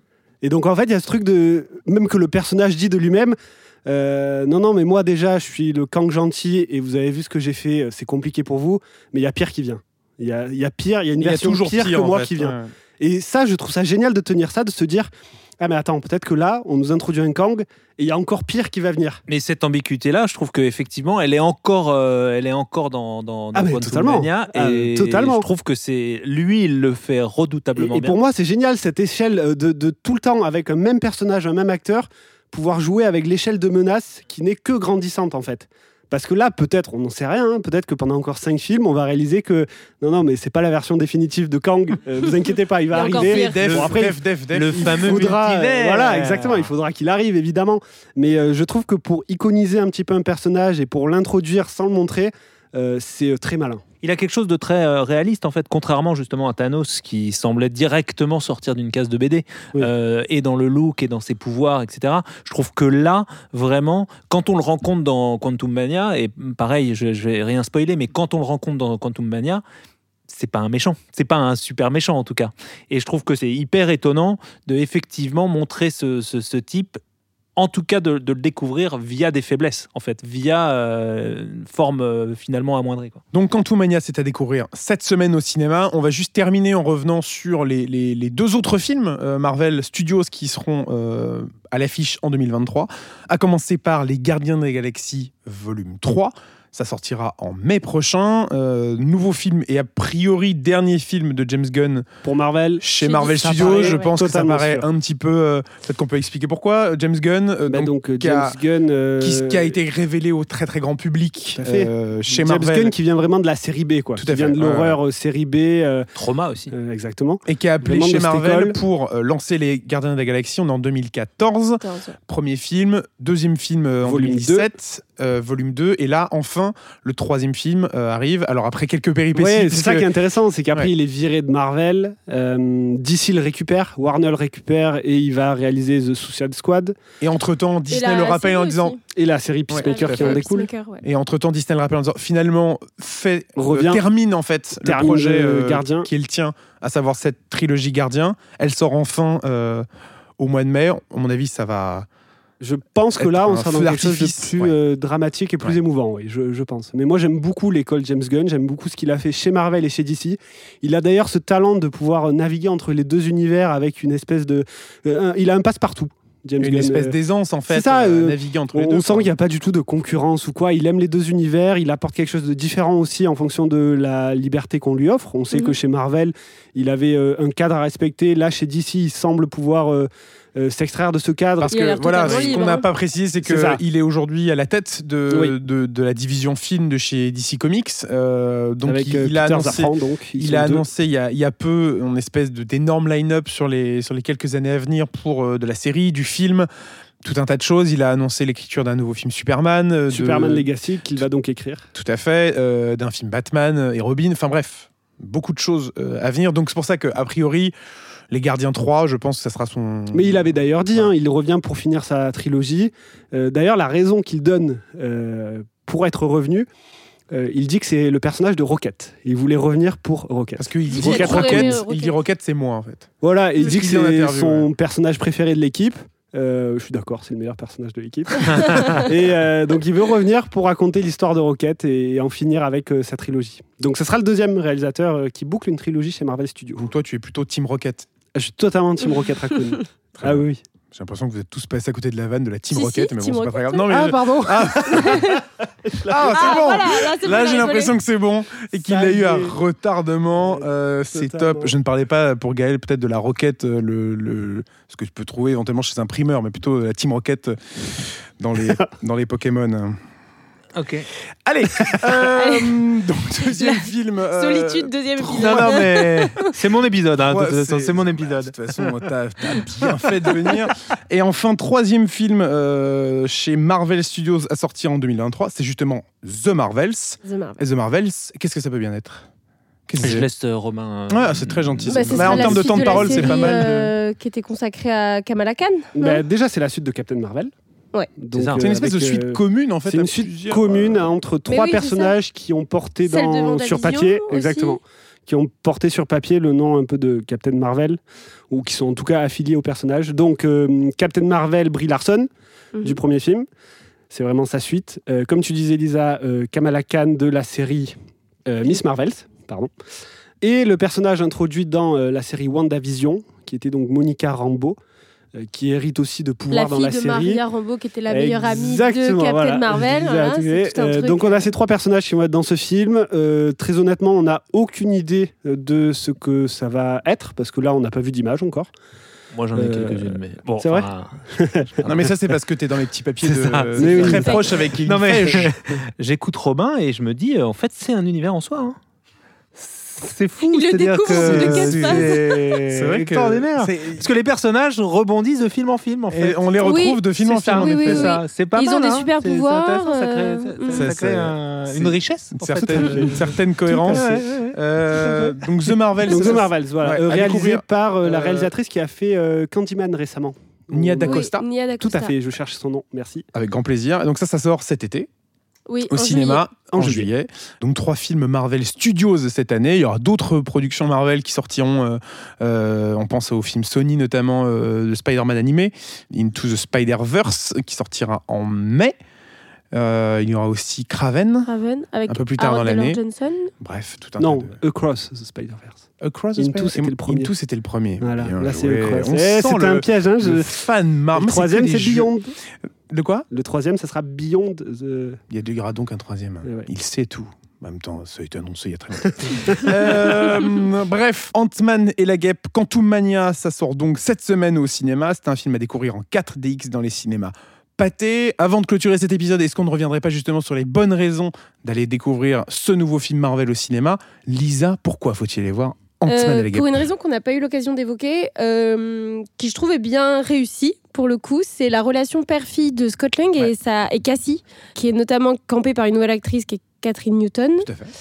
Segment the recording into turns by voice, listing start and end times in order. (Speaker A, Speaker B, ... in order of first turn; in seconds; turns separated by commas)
Speaker A: 0.4-15.1, Speaker B: 11.2-12.7, Speaker A: 15.6-19.2, Speaker C: 19.3-28.2, Speaker A: 23.5-25.5, Speaker A: 27.8-53.8, Speaker D: 42.9-43.6, Speaker C: 43.1-46.7, Speaker B: 43.3-45.3, Speaker C: 54.0-69.6, Speaker C: 70.3-77.0, Speaker C: 77.5-83.2, Speaker B: 83.3-102.0, Speaker A: 102.2-104.9, Speaker B: 102.8-108.6, Speaker D: 103.0-104.1, Speaker A: 107.7-109.8, Speaker B: 109.2-112.9, Speaker A: 111.6-116.1, Speaker B: 114.2-115.0, Speaker C: 116.1-116.7, Speaker A: 116.7-118.8, Speaker B: 117.5-130.1, Speaker D: 121.8-122.1, Speaker A: 124.0-124.7, Speaker A: 129.3-136.9, Speaker B: 137.2-139.0, Speaker D: 137.9-139.0, Speaker A: 139.1-140.7, Speaker B: 139.7-140.4, Speaker D: 139.8-141.0, Speaker B: 141.0-149.8, Speaker A: 143.6-144.0, Speaker A: 144.8-146.1, Speaker B: 150.4-152.1, Speaker A: 152.6-167.2, Speaker B: 153.2-154.7, Speaker B: 166.6-169.3, Speaker A: 167.7-182.6, Speaker B: 181.6-196.7, Speaker D: 181.7-182.8, Speaker A: 183.4-183.8, Speaker A: 185.3-185.5, Speaker A: 188.8-190.8, Speaker B: 197.2-201.2, Speaker A: 200.1-201.9, Speaker B: 201.9-207.7, Speaker B: 208.3-211.1, Speaker A: 210.1-216.7, Speaker A: 217.3-221.8, Speaker B: 220.6-223.1, Speaker D: 220.9-222.2, Speaker A: 223.2-236.9, Speaker B: 223.6-224.7, Speaker C: 228.6-229.0, Speaker D: 228.7-229.0, Speaker B: 236.8-238.1, Speaker A: 238.3-240.6, Speaker B: 240.2-245.4, Speaker D: 242.7-245.4, Speaker A: 243.9-246.8, Speaker B: 246.0-257.7, Speaker D: 246.3-247.9, Speaker A: 248.7-249.6, Speaker A: 250.4-251.7, Speaker B: 258.4-260.0, Speaker C: 260.7-261.1, Speaker B: 261.4-266.2, Speaker D: 262.3-262.8, Speaker D: 263.4-266.4, Speaker C: 265.3-268.5, Speaker B: 267.2-279.2, Speaker D: 277.2-277.6, Speaker B: 279.9-280.3, Speaker C: 280.0-283.6, Speaker B: 281.1-283.9, Speaker D: 281.9-286.2, Speaker A: 285.9-287.5, Speaker A: 288.2-298.0, Speaker C: 288.3-288.7, Speaker B: 288.6-291.1, Speaker D: 291.5-292.1, Speaker D: 293.0-294.8, Speaker A: 298.5-302.3, Speaker A: 302.8-303.4, Speaker A: 304.1-309.7, Speaker A: 310.4-314.8, Speaker A: 315.3-317.4, Speaker D: 316.5-321.5, Speaker A: 318.1-328.7, Speaker C: 329.3-331.9, Speaker A: 329.5-331.8, Speaker B: 331.8-335.5, Speaker C: 333.2-338.8, Speaker A: 333.8-334.4, Speaker C: 339.6-346.7, Speaker D: 340.4-342.2, Speaker B: 341.1-344.1, Speaker B: 346.1-348.1, Speaker D: 346.6-347.0, Speaker C: 347.2-355.7, Speaker D: 347.5-350.8, Speaker B: 350.7-358.5, Speaker A: 352.7-353.2, Speaker A: 356.1-361.3, Speaker B: 360.7-361.5, Speaker D: 361.0-362.1, Speaker A: 361.8-363.2, Speaker B: 363.3-365.1, Speaker D: 365.7-366.4, Speaker B: 365.9-378.9, Speaker A: 366.7-367.1, Speaker B: 379.7-381.5, Speaker D: 381.5-383.5, Speaker B: 382.1-383.0, Speaker B: 383.6-384.5, Speaker A: 384.2-385.9, Speaker B: 386.0-392.1, Speaker A: 386.4-387.3, Speaker A: 388.0-390.6, Speaker A: 391.1-392.3, Speaker B: 392.9-393.2, Speaker A: 393.3-395.2, Speaker B: 395.3-416.8, Speaker A: 399.0-399.7, Speaker D: 416.1-427.7, Speaker B: 427.6-427.9